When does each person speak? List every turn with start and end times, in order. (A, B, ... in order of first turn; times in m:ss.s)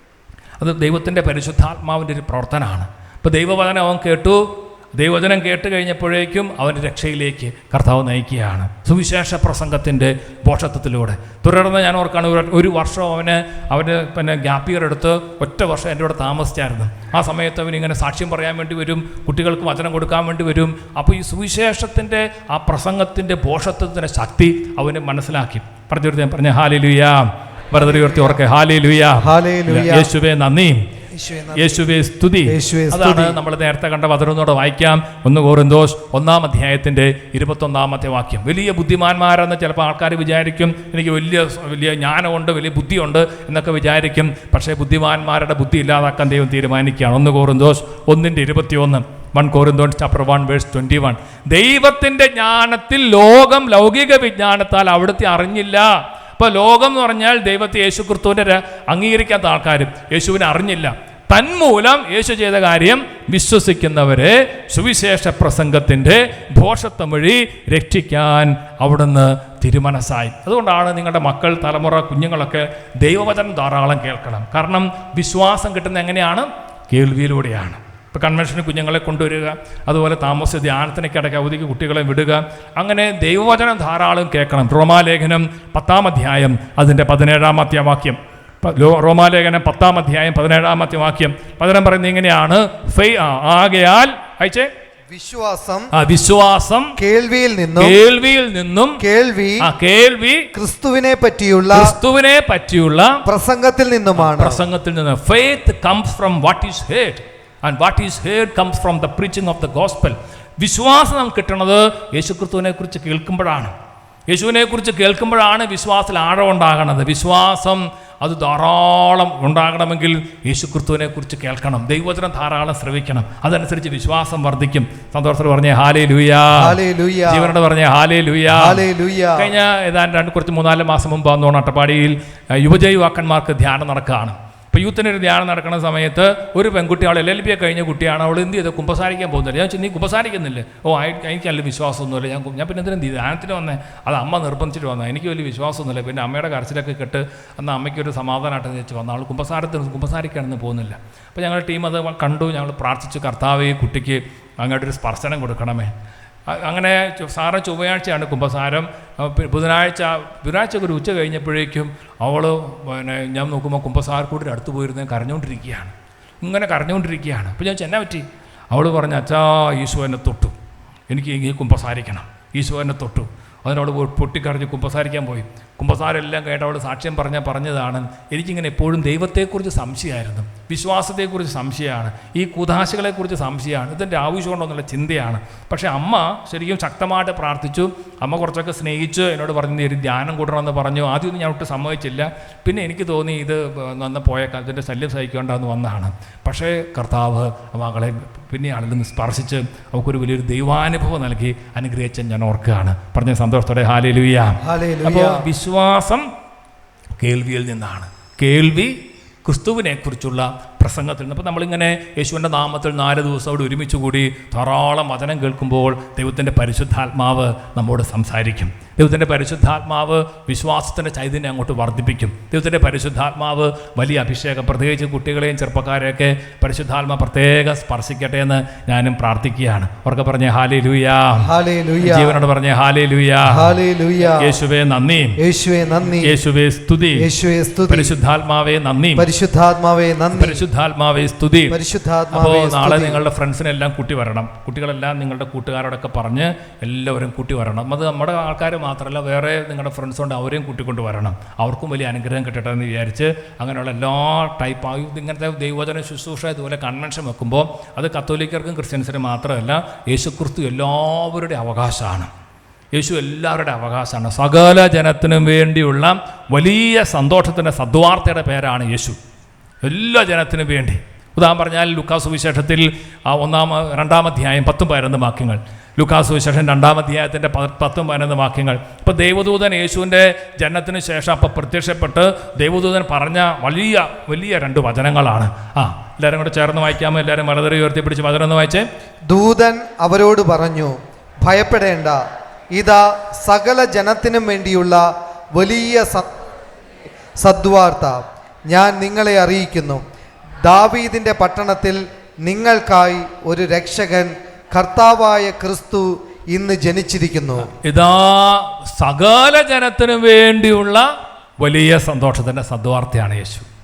0:00.6-0:30.8 A
0:27.7-0:28.4 B
0:29.2-0:30.1 B
0:31.1-0:31.8 B
0:31.5-1:34.7 A
0:32.5-0:33.4 B
1:35.1-1:35.9 B
1:35.9-1:37.0 A
1:37.0-1:38.0 B
1:37.8-1:39.0 A
1:39.0-1:39.7 B
1:39.6-1:40.5 A
1:40.5-1:41.9 B
1:41.7-1:43.2 A
1:43.2-1:44.6 B
1:44.2-1:53.7 A
1:54.3-2:08.8 A
2:06.5-2:07.5 B
2:08.5-2:09.5 B
2:09.4-2:35.9 A
2:36.5-2:50.6 A
2:51.1-3:26.2 A
3:24.6-3:25.4 B
3:27.2-3:55.4 A
3:51.4-3:52.4 B
3:53.5-3:54.6 B
3:55.4-3:56.4 B
3:56.2-3:57.3 A
3:57.2-3:58.1 B
3:57.9-3:59.3 A
3:59.2-4:00.6 B
4:00.3-4:01.8 A
4:01.7-4:03.2 B
4:02.3-4:22.3 A
4:22.9-4:29.2 A
4:29.8-4:48.8 A
4:49.3-4:52.2 B
4:52.7-4:56.3 B
4:57.4-5:00.0 B
5:00.6-5:07.7 B
5:07.7-5:11.0 A
5:11.6-5:13.7 A